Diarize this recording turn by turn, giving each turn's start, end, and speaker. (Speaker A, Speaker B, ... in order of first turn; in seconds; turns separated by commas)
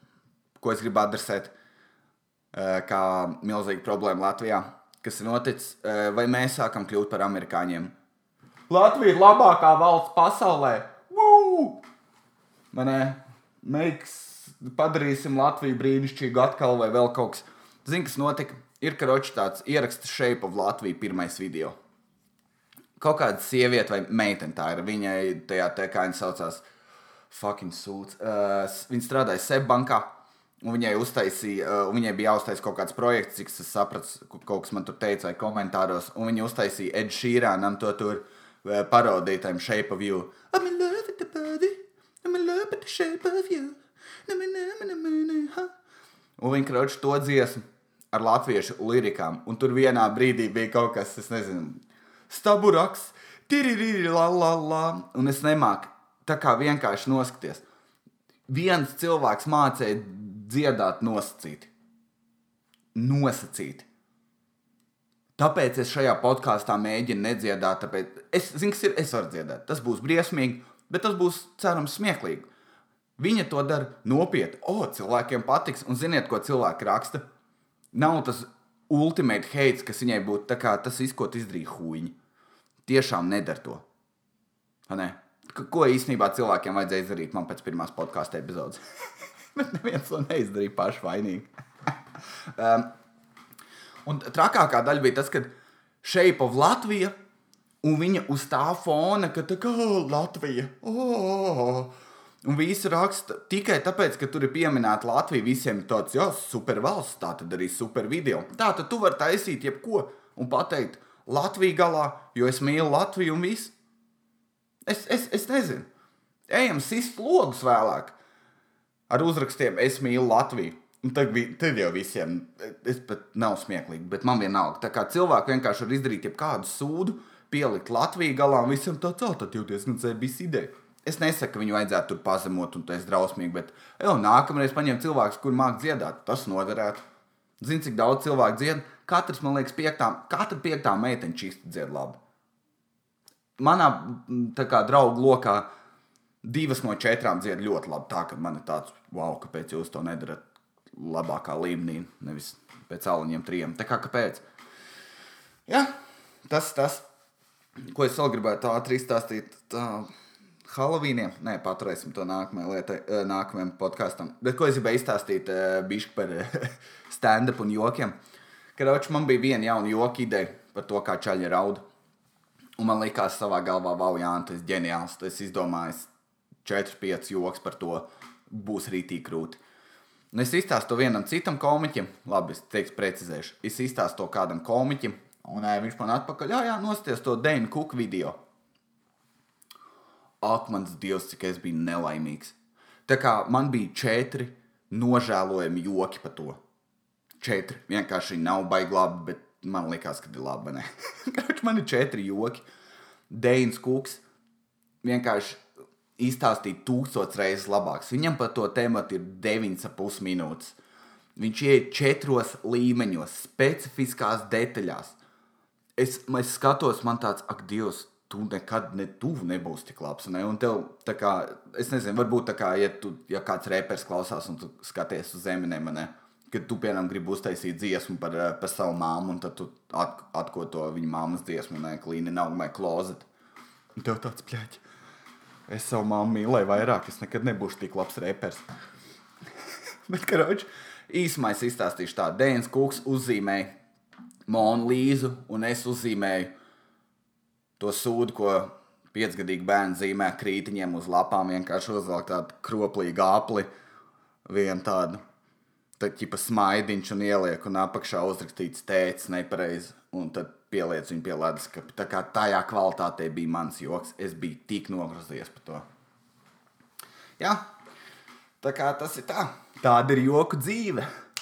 Speaker A: 0.6-1.5, Speaker A: 2.5-7.9, Speaker A: 8.7-11.8, Speaker A: 12.7-21.7, Speaker A: 23.0-26.6, Speaker A: 27.3-30.1, Speaker A: 30.6-45.7, Speaker A: 46.4-57.6, Speaker A: 58.5-61.7, Speaker A: 63.0-63.9, Speaker A: 65.4-72.5, Speaker A: 73.2-77.2, Speaker A: 77.9-82.2, Speaker A: 82.8-83.8, Speaker A: 84.9-88.8, Speaker A: 89.5-91.5, Speaker A: 92.5-92.9, Speaker A: 94.0-95.5, Speaker A: 96.0-97.1, Speaker A: 97.8-101.9, Speaker A: 102.4-113.7, Speaker A: 114.9-115.9, Speaker A: 116.5-118.2, Speaker A: 119.1-137.0, Speaker A: 137.6-142.2, Speaker A: 143.6-145.7, Speaker A: 146.4-150.4, Speaker A: 150.9-154.4, Speaker A: 156.5-157.1, Speaker A: 157.9-160.1, Speaker A: 160.7-168.2, Speaker A: 168.8-171.8, Speaker A: 172.8-176.1, Speaker A: 176.6-179.6, Speaker A: 180.3-188.4, Speaker A: 190.4-196.6, Speaker A: 197.4-202.7, Speaker A: 203.3-204.2, Speaker A: 205.0-205.6, Speaker A: 206.2-210.8, Speaker A: 211.4-215.2, Speaker A: 216.0-233.3, Speaker A: 234.0-234.8, Speaker A: 235.7-238.6, Speaker A: 240.1-243.7, Speaker A: 244.5-246.5, Speaker A: 247.8-253.7, Speaker A: 254.5-255.2, Speaker A: 256.0-265.9, Speaker A: 268.6-271.1